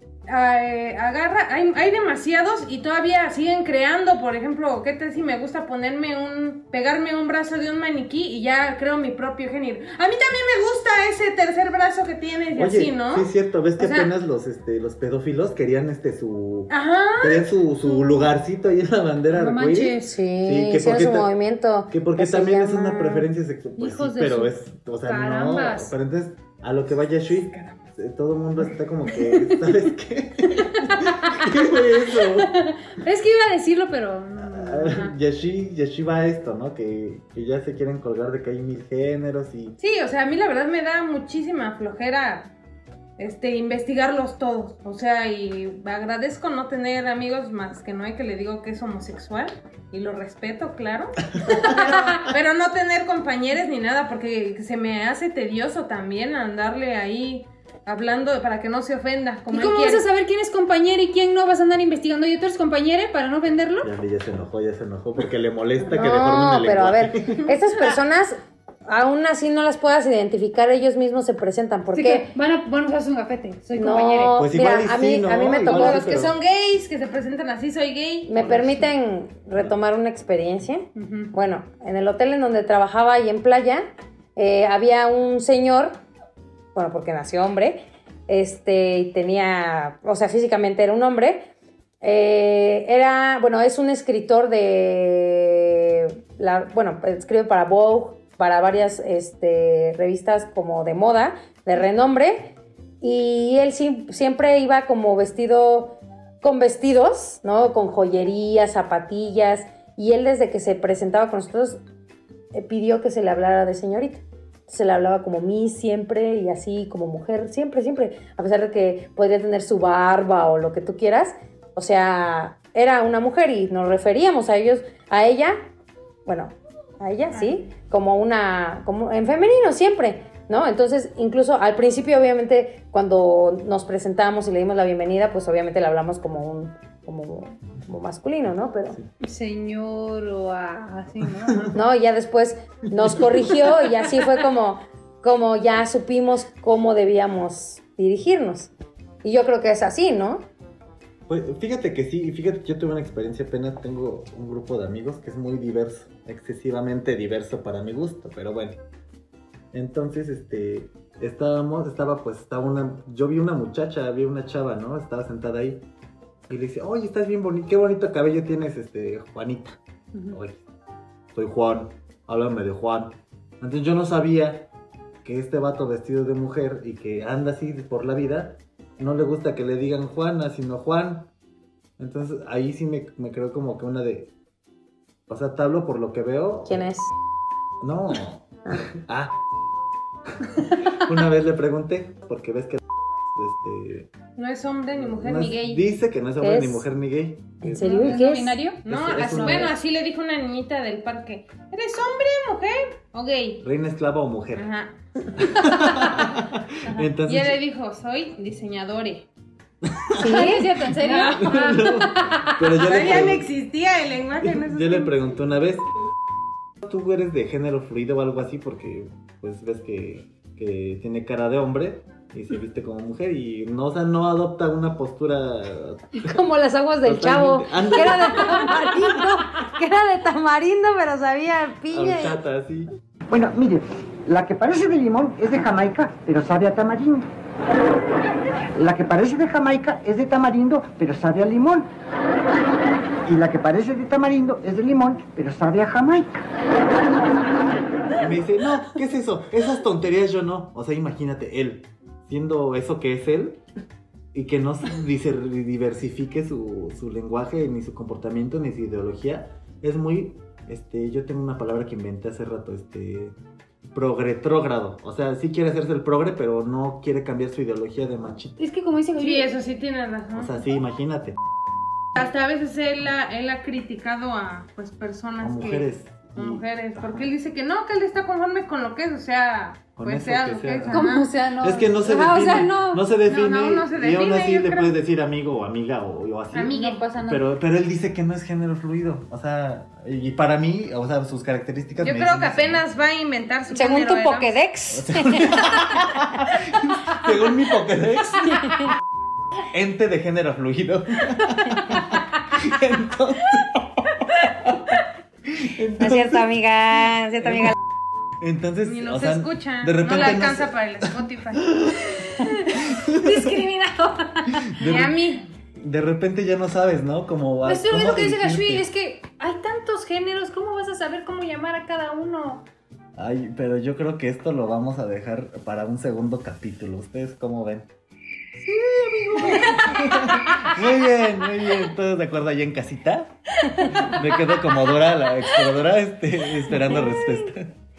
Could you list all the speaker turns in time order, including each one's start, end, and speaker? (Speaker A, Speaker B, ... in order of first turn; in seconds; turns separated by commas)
Speaker A: 0.3-14.1, Speaker B: 12.5-21.3, Speaker A: 16.7-17.5, Speaker C: 19.3-20.1, Speaker D: 20.0-23.3, Speaker B: 21.9-32.5, Speaker C: 23.8-24.5, Speaker C: 25.1-25.9, Speaker C: 29.2-29.6, Speaker C: 30.7-31.6, Speaker C: 32.1-35.1, Speaker B: 34.4-39.8, Speaker A: 39.8-42.5, Speaker A: 43.2-60.0, Speaker C: 59.5-63.9, Speaker B: 63.8-67.5, Speaker D: 65.8-72.3, Speaker C: 71.9-74.4, Speaker D: 73.7-76.3, Speaker B: 74.3-76.4, Speaker A: 75.7-78.3, Speaker D: 78.2-86.0, Speaker B: 78.3-79.0, Speaker C: 81.0-81.3, Speaker D: 86.7-91.5, Speaker D: 92.0-111.8, Speaker D: 112.5-125.7, Speaker D: 126.2-139.0, Speaker C: 139.2-141.7, Speaker D: 141.7-148.7, Speaker D: 149.2-150.5, Speaker B: 151.3-158.8, Speaker B: 159.7-165.8, Speaker B: 166.5-169.8, Speaker B: 170.3-170.6, Speaker B: 171.3-174.7, Speaker B: 175.2-181.3, Speaker B: 182.0-184.3, Speaker B: 185.3-186.8, Speaker D: 186.7-187.1, Speaker B: 187.8-189.4, Speaker B: 191.0-194.1, Speaker A: 194.3-195.8, Speaker B: 194.9-198.2, Speaker D: 196.4-196.8, Speaker D: 197.6-198.6, Speaker C: 197.7-199.7, Speaker B: 198.8-199.8, Speaker A: 198.8-203.6, Speaker B: 203.6-204.7, Speaker A: 204.5-204.9, Speaker B: 205.4-207.6, Speaker A: 207.2-209.3, Speaker B: 209.8-210.5, Speaker D: 210.1-210.8, Speaker C: 210.2-212.5, Speaker A: 211.0-212.0, Speaker B: 211.3-213.5, Speaker A: 212.6-215.1, Speaker B: 214.4-215.9, Speaker B: 216.8-226.4, Speaker D: 226.2-232.4, Speaker B: 227.0-228.9, Speaker B: 231.9-232.9, Speaker E: 233.3-237.3, Speaker E: 238.8-241.9, Speaker E: 243.2-246.4, Speaker B: 248.2-253.6, Speaker B: 254.3-263.3, Speaker B: 263.9-268.5, Speaker C: 268.6-269.5, Speaker A: 269.2-270.5, Speaker B: 270.3-271.4, Speaker A: 272.1-281.3, Speaker B: 275.4-277.3, Speaker B: 280.0-292.9, Speaker C: 280.9-283.1, Speaker A: 282.3-282.8, Speaker A: 283.3-284.9, Speaker C: 286.6-287.4, Speaker A: 286.6-287.0, Speaker A: 292.0-294.5, Speaker D: 293.7-296.2, Speaker B: 294.9-298.5, Speaker D: 298.4-298.9, Speaker B: 299.7-304.8, Speaker B: 305.5-306.6, Speaker D: 306.0-307.7, Speaker B: 307.4-307.8, Speaker B: 308.4-311.0, Speaker A: 308.8-311.7, Speaker B: 311.5-312.1, Speaker C: 312.4-314.9, Speaker B: 312.7-313.5, Speaker B: 314.7-315.2, Speaker A: 314.8-315.4, Speaker B: 315.8-318.9, Speaker C: 317.6-322.6, Speaker B: 323.1-327.9, Speaker B: 328.6-337.7